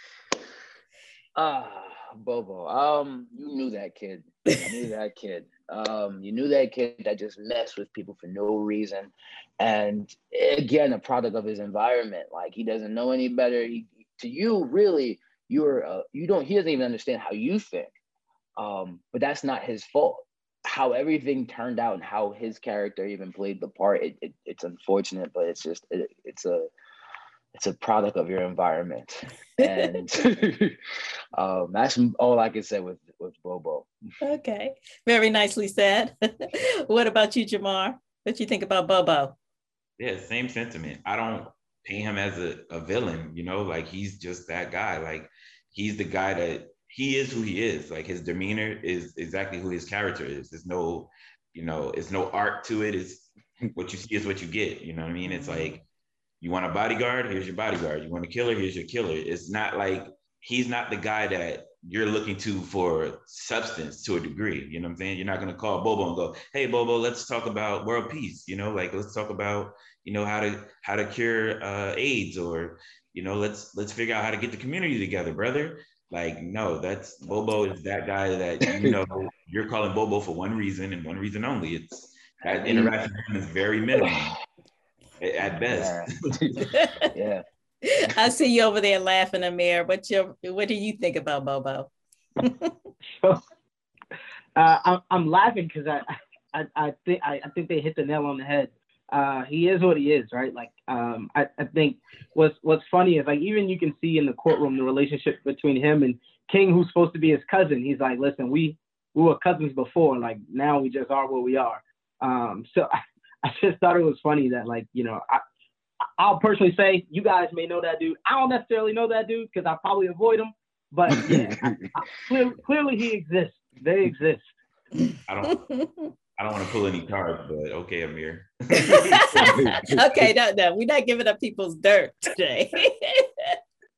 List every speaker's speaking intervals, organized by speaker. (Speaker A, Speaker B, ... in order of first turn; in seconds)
Speaker A: 1.4-17.9, 18.6-26.7, 27.5-30.8, 31.4-33.9, 78.7-79.0, 82.5-82.9, 85.7-86.6, 87.1-87.4, 121.2-121.7, 129.4-130.0
Speaker B: 34.2-39.4, 55.2-55.8, 86.6-86.9, 87.8-91.9, 92.4-92.7, 125.5-126.1, 128.8-133.6
Speaker C: 40.0-55.8, 56.4-84.4, 85.2-86.4, 125.3-125.6, 126.4-129.8
Speaker D: 94.5-115.4, 116.2-124.5